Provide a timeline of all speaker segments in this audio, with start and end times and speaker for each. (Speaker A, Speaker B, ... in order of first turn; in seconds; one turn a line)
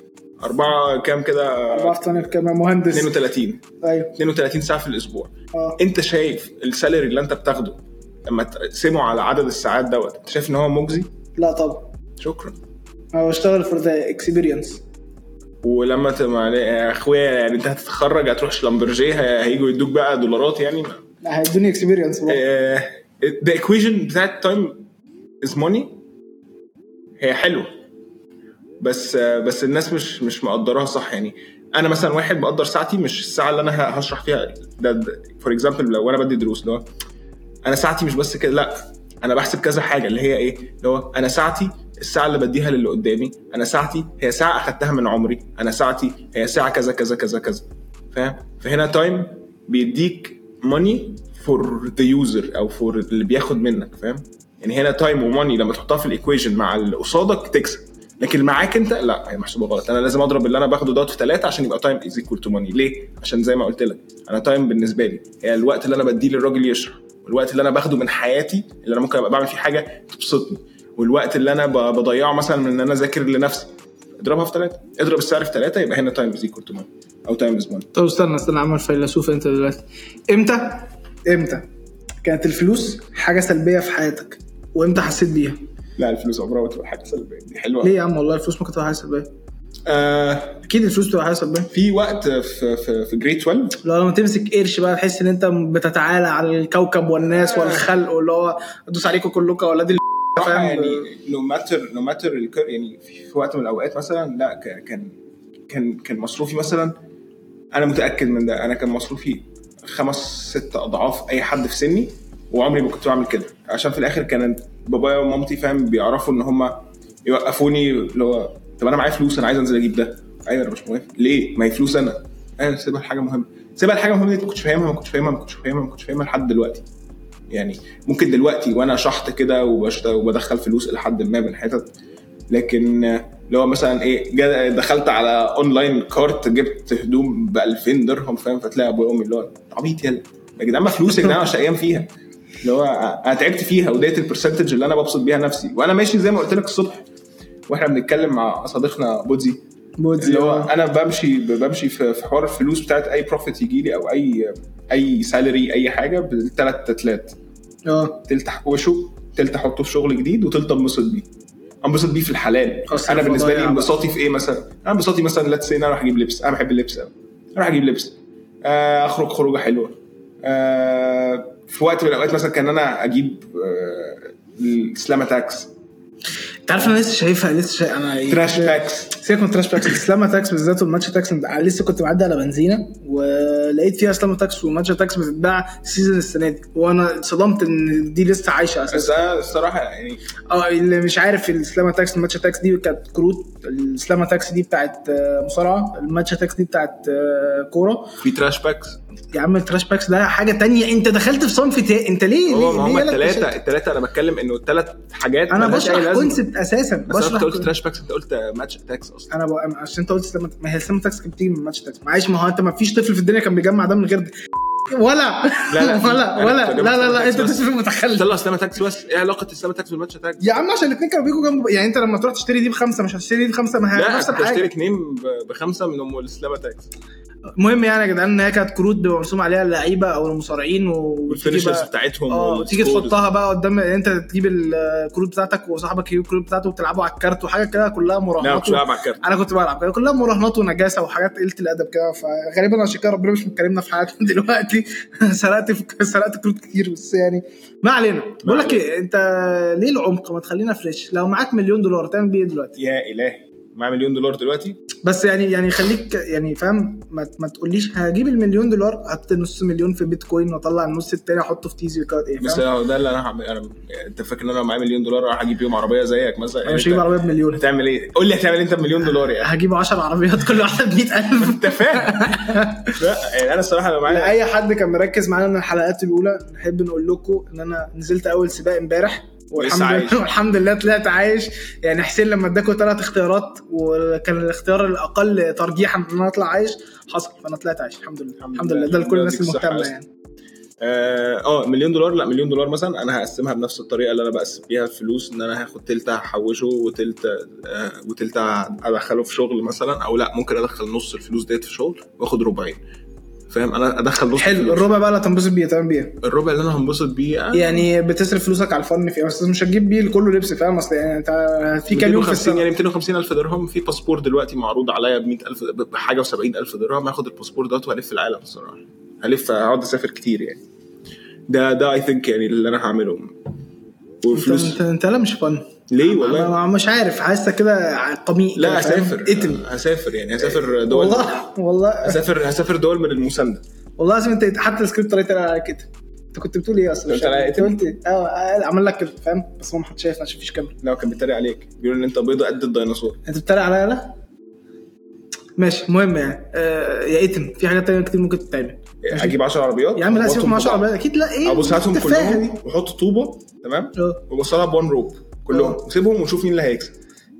Speaker A: 0.4-2.3
Speaker B: 1.7-3.1
Speaker A: 2.9-3.6
Speaker B: 3.8-4.1
Speaker A: 4.1-11.1
Speaker B: 5.5-5.8
Speaker B: 11.3-11.9
Speaker A: 12.2-12.6
Speaker B: 13.1-14.8
Speaker A: 15.6-21.0
Speaker B: 21.2-22.4
Speaker A: 22.3-24.9
Speaker A: 25.4-26.0
Speaker A: 27.2-27.7
Speaker A: 28.8-36.9
Speaker A: 37.6-77.9
Speaker B: 77.9-81.6
Speaker B: 82.2-85.6
Speaker A: 86.0-87.9
Speaker B: 87.8-89.3
Speaker A: 89.8-90.6
Speaker B: 90.6-91.7
Speaker A: 91.7-93.8
Speaker B: 93.8-101.1
Speaker A: 97.3-97.9
Speaker A: 100.3-105.1
Speaker A: 105.7-106.9
Speaker A: 107.7-126.8
Speaker A: 127.5-131.9
Speaker A: 132.5-142.1
Speaker A: 142.6-147.0
Speaker A: 147.7-149.6
Speaker B: 150.0-150.7
Speaker A: 150.2-157.3
Speaker B: 157.8-158.2
Speaker A: 158.2-161.2
Speaker A: 161.8-175.7
Speaker B: 162.9-163.9
Speaker B: 176.7-189.1
Speaker A: 178.3-179.1
Speaker A: 188.9-190.2
Speaker B: 190.5-198.2
Speaker A: 198.2-199.0
Speaker B: 199.3-203.5
Speaker A: 202.5-206.4
Speaker B: 205.5-207.7
Speaker A: 207.1-209.3
Speaker B: 209.3-214.3
Speaker B: 214.9-218.3
Speaker A: 215.7-220.4
Speaker B: 220.4-224.7
Speaker A: 223.9-226.9
Speaker B: 227.6-252.8
Speaker A: 231.3-233.2
Speaker A: 238.4-239.2
Speaker A: 248.4-248.8
Speaker A: 252.8-254.8
Speaker B: 255.0-262.6
Speaker A: 262.4-269.5
Speaker B: 266.6-267.6
Speaker B: 269.2-273.0
Speaker A: 271.4-274.4
Speaker B: 274.1-290.1
Speaker A: 279.5-280.2
Speaker A: 288.4-289.9
Speaker A: 290.8-302.8
Speaker A: 303.5-304.9
Speaker B: 304.3-306.2
Speaker A: 306.2-307.8
Speaker B: 307.5-312.7
Speaker A: 311.9-320.6
Speaker A: 321.5-323.3
Speaker A: 324.2-324.8
Speaker B: 324.3-329.6
Speaker A: 325.9-326.5
Speaker A: 328.5-331.3
Speaker B: 330.4-332.2
Speaker A: 332.0-333.6
Speaker B: 334.0-340.8
Speaker A: 337.1-337.8
Speaker A: 340.8-343.2
Speaker B: 343.2-344.1
Speaker B: 345.6-349.4
Speaker A: 349.0-350.9
Speaker B: 349.9-352.6
Speaker A: 351.4-356.9
Speaker B: 353.9-354.2
Speaker B: 355.5-355.8